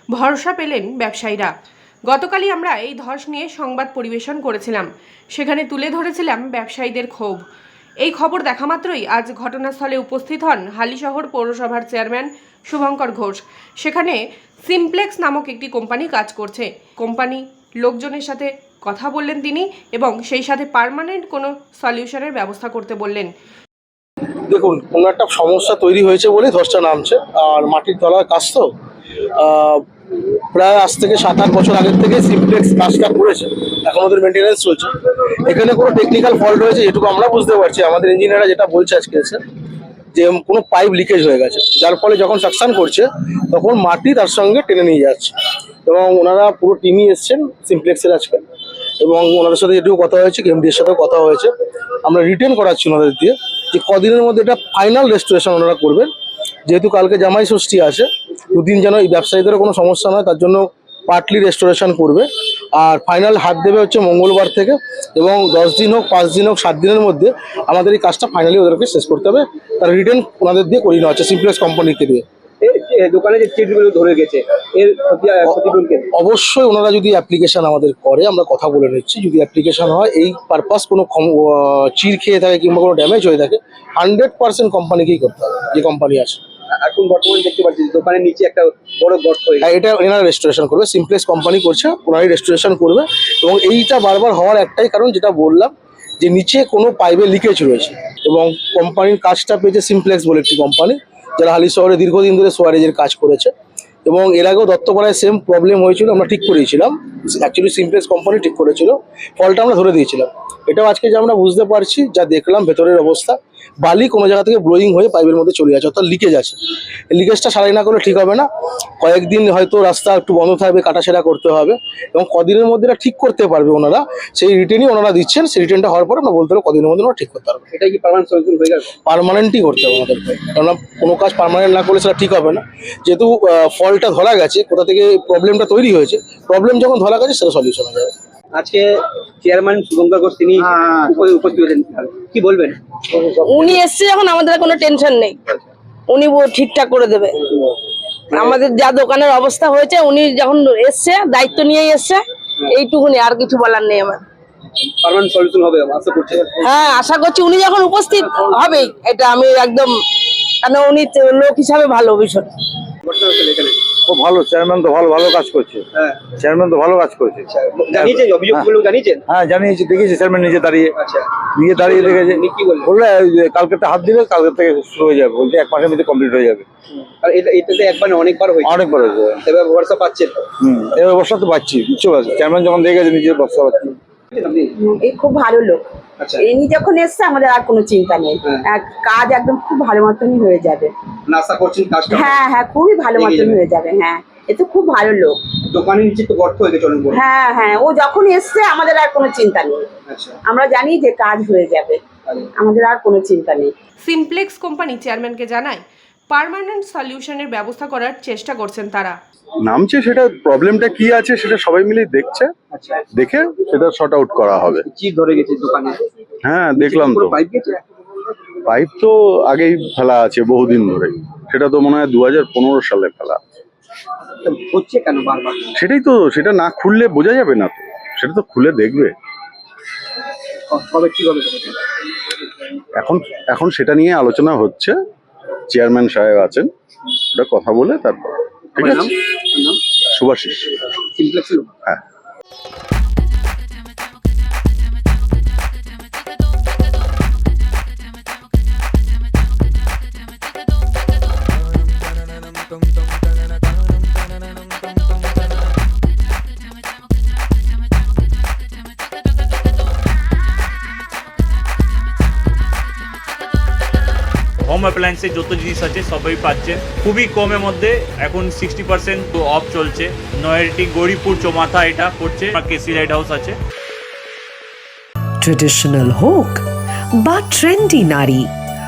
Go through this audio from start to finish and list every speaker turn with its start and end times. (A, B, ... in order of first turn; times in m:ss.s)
0:00.1-0:01.5 A
0:02.1-0:07.4 A
0:08.0-0:23.3 A
0:24.5-0:28.7 B
0:29.4-0:29.8 B
0:30.5-0:34.9 B
0:35.5-0:39.4 B
0:40.1-0:45.3 B
0:45.9-0:48.4 B
0:49.0-0:51.5 B
0:52.0-0:56.1 B
0:56.7-1:12.2 B
1:12.6-1:16.0 C
1:15.5-1:26.4 B
1:26.8-1:29.7 C
1:29.6-1:43.5 B
1:44.1-1:56.6 B
1:57.1-1:58.5 B
1:59.0-2:07.6 B
2:07.7-2:08.9 C
2:09.1-2:18.1 B
2:18.5-2:18.9 C
2:19.4-2:22.8 C
2:23.4-2:25.4 D
2:23.6-2:23.8 E
2:26.1-2:27.5 D
2:28.3-2:34.2 D
2:28.3-2:28.6 C
2:35.0-2:36.6 C
2:36.6-2:40.0 D
2:40.6-2:42.5 D
2:43.0-2:43.8 C
2:44.1-2:48.7 E
2:45.9-2:46.2 C
2:47.5-2:49.2 C
2:49.3-2:51.0 E
2:51.0-2:52.9 C
2:51.6-2:56.6 E
2:57.2-3:00.4 C
2:58.6-2:59.4 E
3:00.6-3:04.0 E
3:04.3-3:04.7 C
3:04.8-3:10.9 F
3:06.2-3:06.4 C
3:11.3-3:12.4 C
3:12.1-3:15.4 F
3:13.2-3:13.6 C
3:15.7-3:17.2 C
3:17.1-3:19.8 F
3:20.1-3:20.4 C
3:20.4-3:22.0 F
3:22.6-3:23.7 F
3:24.0-3:29.2 A
3:29.6-3:32.5 G
3:32.7-3:33.0 C
3:33.1-3:34.9 G
3:34.9-3:36.0 C
3:36.4-3:37.4 G
3:36.7-3:37.8 C
3:38.7-3:43.4 G
3:44.4-3:45.7 C
3:45.7-3:49.2 G
3:50.7-3:51.8 C
3:53.0-3:55.0 G
3:55.7-3:56.7 G
3:57.3-3:59.1 G
3:58.8-3:59.8 C
4:00.1-4:00.7 G
4:01.1-4:01.7 C
4:24.6-4:33.6 H
4:35.4-4:36.6 I
4:37.2-4:38.5 I